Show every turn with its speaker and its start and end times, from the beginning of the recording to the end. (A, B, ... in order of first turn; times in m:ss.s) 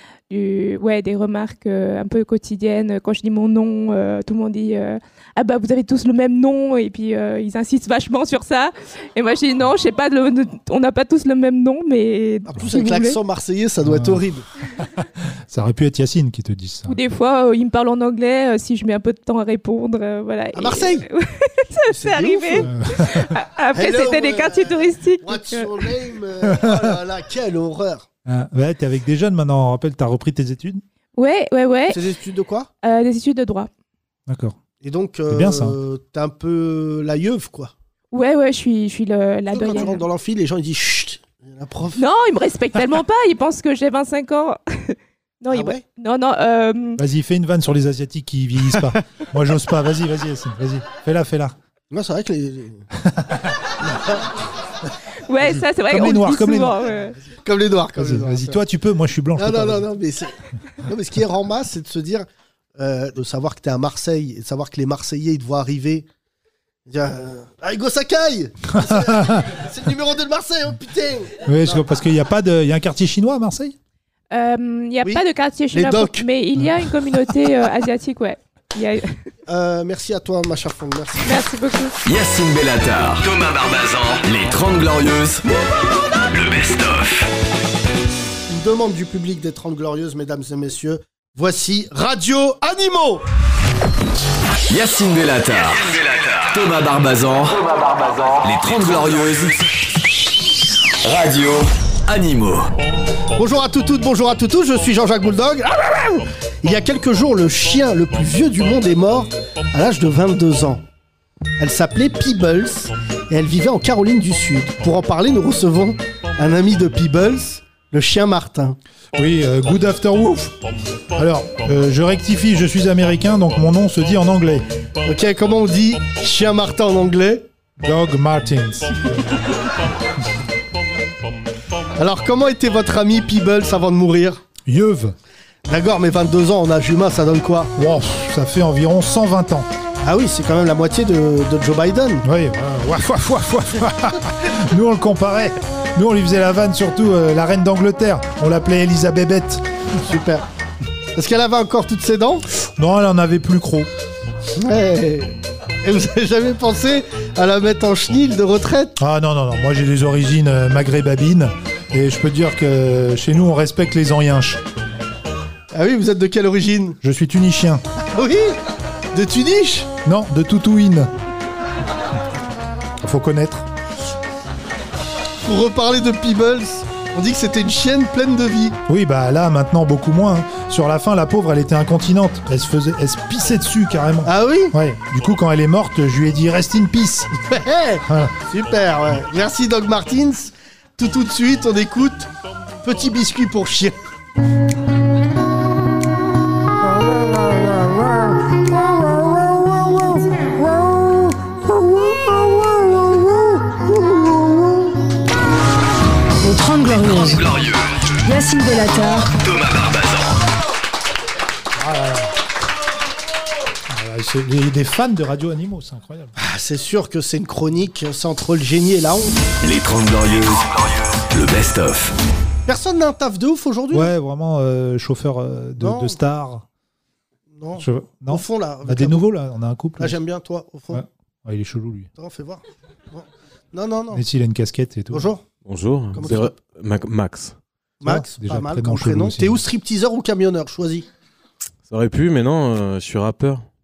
0:00.3-0:13.2 A
0:12.5-0:14.4 B
0:13.8-0:14.2 C
0:14.8-0:17.0 C
0:16.9-0:25.8 A
0:20.5-0:21.0 B
0:21.9-0:22.7 B
0:22.6-0:23.3 C
0:23.7-0:28.1 B
0:26.4-0:26.9 C
0:28.2-0:30.8 C
0:31.2-0:32.0 A
0:31.9-0:32.7 B
0:32.8-0:33.7 A
0:34.3-0:34.6 C
0:34.8-0:37.7 B
0:35.3-0:35.8 C
0:38.1-0:40.0 A
0:39.5-0:42.0 B
0:42.0-0:47.0 A
0:45.5-0:45.8 B
0:47.0-0:51.6 C
0:51.9-0:52.8 B
0:53.0-0:53.4 C
0:53.8-0:54.3 B
0:55.3-0:57.2 A
0:55.9-0:56.8 C
0:57.3-0:58.6 B
0:58.0-0:59.9 C
0:59.4-1:06.1 B
1:06.9-1:11.8 B
1:08.9-1:09.4 C
1:11.4-1:13.8 C
1:14.3-1:19.2 A
1:15.0-1:16.3 B
1:19.5-1:21.4 B
1:21.2-1:21.9 A
1:22.0-1:25.4 D
1:26.3-1:27.3 D
1:28.5-1:33.2 B
1:34.7-1:39.6 D
1:41.0-1:42.7 D
1:43.4-1:50.8 B
1:51.6-1:58.8 B
1:59.1-2:00.5 C
2:01.1-2:04.7 C
2:05.0-2:07.5 B
2:07.8-2:09.4 C
2:12.0-2:14.4 B
2:14.6-2:15.1 C
2:15.7-2:17.7 B
2:17.8-2:19.7 C
2:20.0-2:22.2 B
2:22.2-2:29.6 C
2:30.0-2:30.5 B
2:31.1-2:32.4 B
2:32.8-2:33.9 C
2:34.6-2:39.0 B
2:39.0-2:44.6 C
2:45.7-2:47.0 B
2:47.0-2:47.8 C
2:48.1-2:48.6 B
2:49.1-2:49.9 B
2:50.0-2:51.1 C
2:53.0-2:53.7 C
2:55.4-2:58.8 B
2:58.9-3:07.3 C
3:04.2-3:04.8 B
3:07.5-3:12.3 B
3:08.0-3:08.3 C
3:12.8-3:14.0 B
3:26.4-3:27.4 E
3:27.2-3:27.9 D
3:28.2-3:29.3 E
3:29.4-3:30.3 D
3:31.8-3:32.3 C
3:33.9-3:36.3 C
3:36.4-3:39.4 B
3:39.6-3:42.1 D
3:42.6-3:44.1 B
3:43.9-3:46.6 C
3:45.8-3:46.2 B
3:47.5-3:49.2 B
3:47.8-3:50.2 C
3:50.0-3:51.0 B
3:50.9-3:52.1 C
3:52.2-3:54.2 B
3:54.1-3:55.3 C
3:55.1-3:55.4 B
3:55.6-3:57.6 F
3:56.1-3:56.6 B
3:58.0-4:01.0 B
3:58.0-3:59.6 C
4:01.9-4:03.6 F